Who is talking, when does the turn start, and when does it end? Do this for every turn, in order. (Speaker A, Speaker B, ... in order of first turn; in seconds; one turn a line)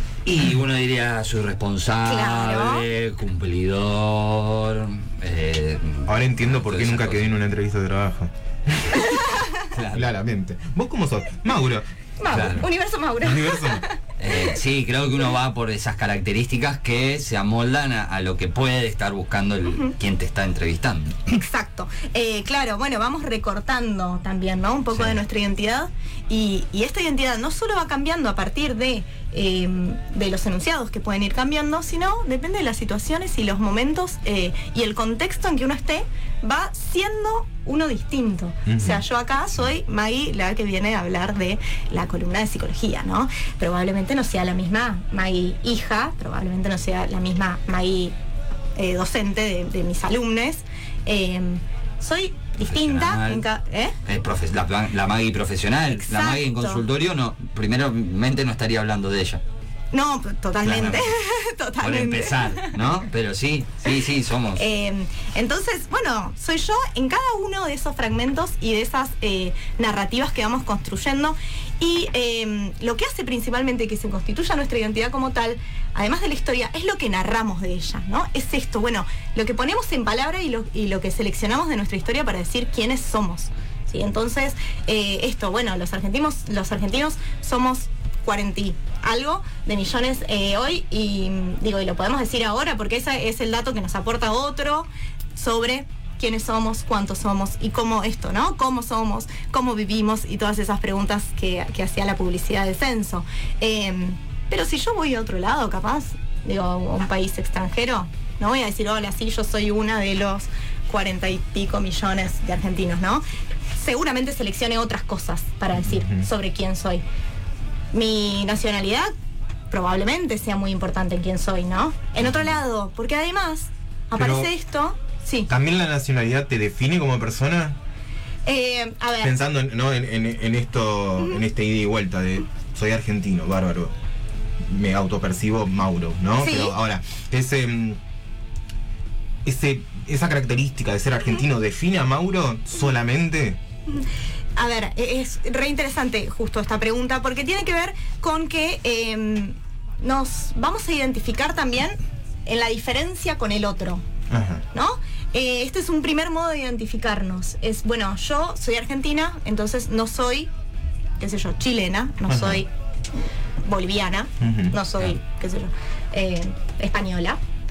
Speaker A: 0.2-7.3
Speaker B: 2.1-2.9
Speaker C: 6.1-9.1
Speaker B: 9.0-9.5
Speaker A: 9.7-10.1
Speaker C: 9.9-11.8
Speaker B: 12.2-14.5
Speaker A: 12.3-12.7
Speaker C: 13.2-13.8
Speaker A: 14.2-21.3
Speaker B: 21.3-48.1
Speaker A: 24.9-25.2
Speaker C: 38.7-39.0
Speaker B: 48.8-53.9
Speaker A: 52.6-53.5
Speaker A: 54.0-59.4
Speaker B: 55.9-56.8
Speaker B: 59.9-62.8
Speaker A: 60.6-61.1
Speaker A: 61.8-64.7
Speaker B: 64.6-117.0
Speaker C: 115.8-116.3
Speaker B: 117.9-119.1
Speaker B: 119.7-125.5
Speaker C: 122.2-122.5
Speaker C: 124.1-124.5
Speaker C: 125.5-127.8
Speaker B: 128.5-129.3
Speaker C: 129.2-133.9
Speaker C: 134.6-138.0
Speaker B: 136.4-136.7
Speaker C: 139.4-143.6
Speaker B: 144.6-154.0
Speaker C: 154.3-154.6
Speaker B: 154.7-160.5
Speaker B: 161.2-162.7
Speaker C: 162.3-162.6
Speaker B: 163.6-167.4
Speaker C: 164.4-164.8